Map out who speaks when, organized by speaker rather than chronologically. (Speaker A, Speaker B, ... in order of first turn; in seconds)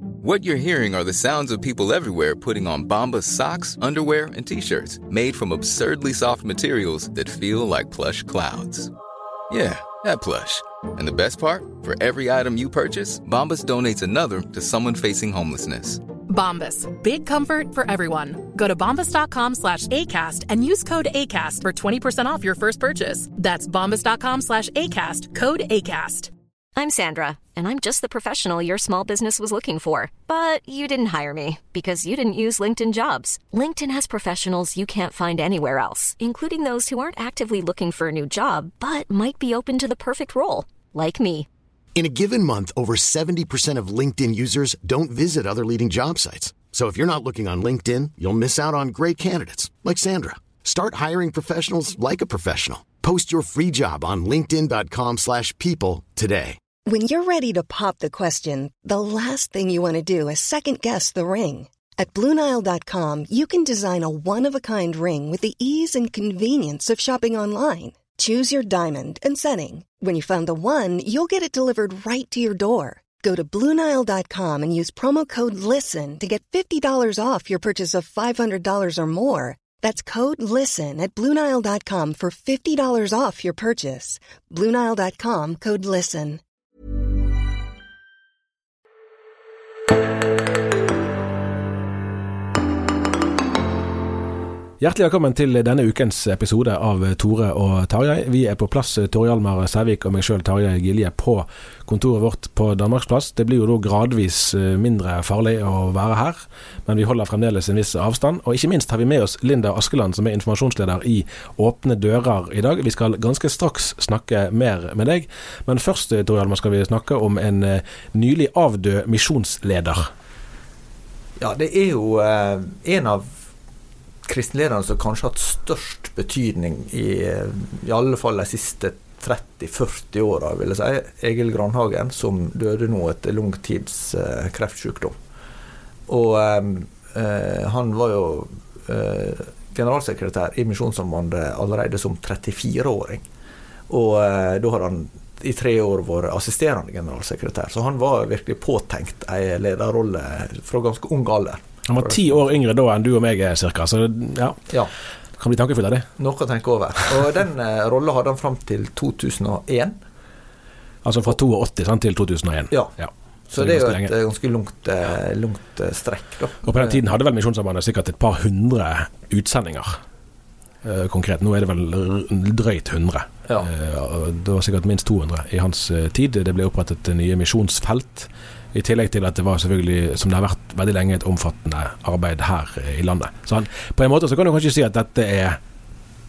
Speaker A: 0.2-8.9, 9.5-16.0
Speaker B: 16.2-26.3
Speaker C: 26.8-41.5
Speaker D: 41.9-56.6
Speaker E: 56.9-86.4
Speaker F: 94.8-120.1, 151.9-154.7, 155.4-156.1, 161.0-164.1, 166.7-170.0, 170.8-185.6
Speaker G: 121.4-123.2, 124.2-135.1, 136.1-143.2, 143.9-152.4, 156.2-159.9, 163.5-167.0